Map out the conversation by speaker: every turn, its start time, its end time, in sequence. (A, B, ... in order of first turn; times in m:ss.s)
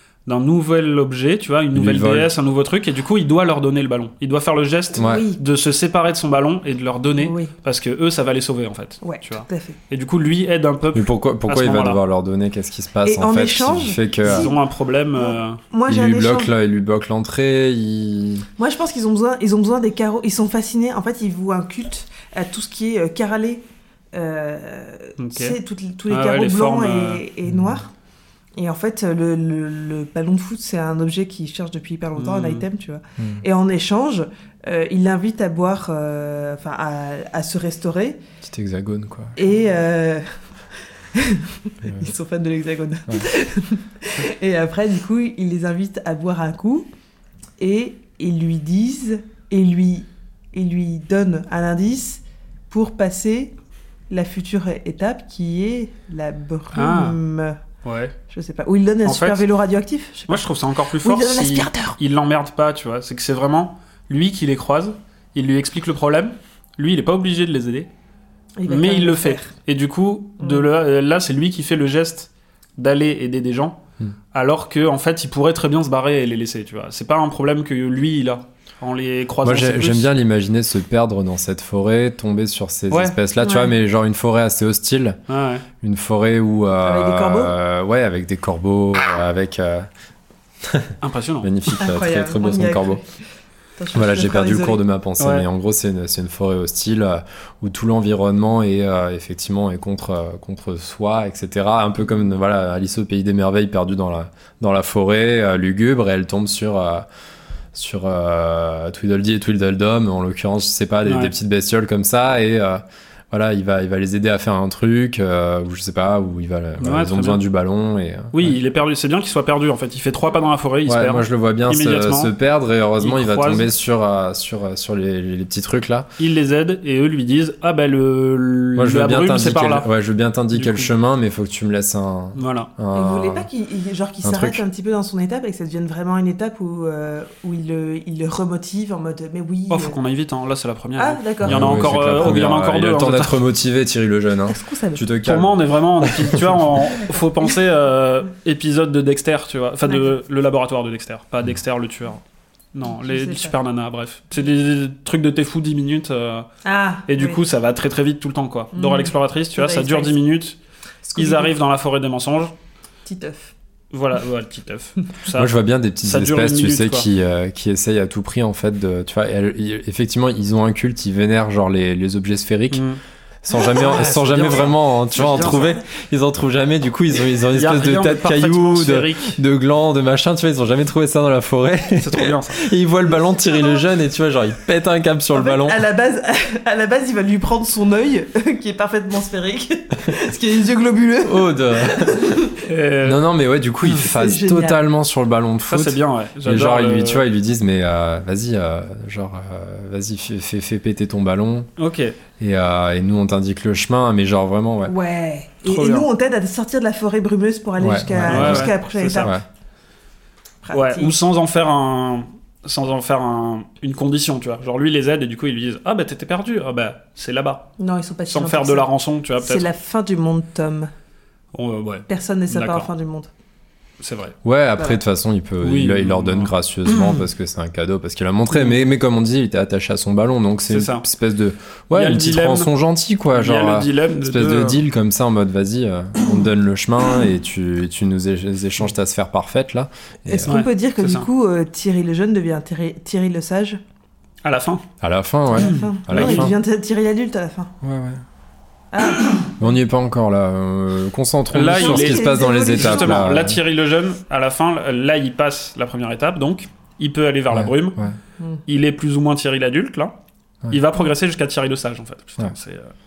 0:00.2-0:12.0 A
0:01.7-0:02.3 B
0:04.9-0:05.4 C
0:05.0-0:05.3 B
0:07.2-0:07.5 C
0:09.0-0:09.8 C
0:10.9-0:14.5 B
0:13.0-0:14.6 C
0:14.2-0:15.6 A
0:15.1-0:16.5 C
0:15.9-0:18.4 B
0:18.6-0:27.9 C
0:25.2-0:25.6 A
0:26.1-0:27.2 A
0:27.5-0:27.7 B
0:28.6-0:38.2 C
0:32.2-0:32.6 A
0:33.2-0:33.4 B
0:38.4-0:39.4 B
0:39.4-0:40.3 C
0:41.1-0:46.9 C
0:41.8-0:42.1 B
0:47.6-0:53.5 C
0:54.1-0:57.6 C
0:56.7-0:57.2 A
0:57.8-0:58.1 A
0:58.3-1:00.5 C
0:59.0-0:59.4 A
1:00.3-1:07.9 A
1:01.0-1:02.0 C
1:08.6-1:09.5 C
1:08.7-1:13.8 A
1:10.4-1:10.7 C
1:14.3-1:20.1 A
1:19.4-1:25.2 B
1:22.9-1:23.2 A
1:23.4-1:23.7 C
1:25.3-1:25.6 A
1:25.8-1:29.9 B
1:26.8-1:27.5 C
1:30.6-1:33.0 B
1:31.0-1:31.5 A
1:31.8-1:33.2 C
1:33.8-1:34.8 C
1:33.9-1:47.1 B
1:35.2-1:35.4 A
1:47.7-1:58.6 B
1:51.0-1:51.3 A
1:56.8-1:57.4 A
1:58.3-2:02.3 A
2:00.8-2:06.1 B
2:03.0-2:03.7 A
2:06.2-2:09.9 A
2:08.8-2:13.5 B
2:10.5-2:10.9 A
2:12.3-2:12.7 A
2:12.9-2:20.0 C
2:14.2-2:14.6 B
2:19.7-2:23.4 A
2:21.0-2:22.0 C
2:21.4-2:26.6 B
2:24.5-2:25.0 C
2:25.2-2:32.2 A
2:29.8-2:30.1 C
2:32.7-2:36.5 A
2:32.9-2:33.5 C
2:36.6-2:37.4 C
2:37.1-2:40.6 A
2:38.7-2:40.2 C
2:41.0-2:41.6 C
2:41.1-2:42.5 A
2:43.0-2:43.5 C
2:43.9-2:45.5 A
2:45.3-2:52.8 B
2:46.0-2:47.1 A
2:52.7-2:53.0 A
2:53.4-3:05.8 B
2:53.6-2:55.8 A
2:55.3-2:55.6 C
2:57.5-2:59.4 A
3:02.0-3:02.6 A
3:05.3-3:12.6 C
3:11.2-3:12.5 B
3:12.6-3:13.2 A
3:13.0-3:21.7 B
3:14.0-3:14.8 C
3:15.6-3:17.2 A
3:21.8-3:22.2 A
3:22.4-3:25.0 B
3:24.8-3:29.4 C
3:25.6-3:26.1 A
3:27.8-3:29.4 B
3:28.3-3:29.3 A
3:30.6-3:31.1 C
3:30.7-3:37.7 A
3:37.8-3:40.9 C
3:38.3-3:39.7 A
3:41.5-3:42.9 A
3:42.1-3:43.3 C
3:44.0-3:44.4 A
3:44.4-4:00.6 B
3:45.6-3:47.2 A
3:50.7-3:51.0 A
3:51.9-3:52.7 A
3:53.3-3:54.8 A
4:00.3-4:03.8 C
4:00.5-4:01.3 A
4:04.4-4:04.8 A
4:05.0-4:06.5 B
4:05.5-4:07.7 C
4:05.6-4:06.5 A
4:07.8-4:08.2 B
4:08.9-4:09.7 C
4:09.6-4:13.6 B
4:11.5-4:18.0 A
4:11.6-4:13.4 C
4:17.5-4:18.2 B
4:18.6-4:20.1 A
4:20.7-4:22.9 A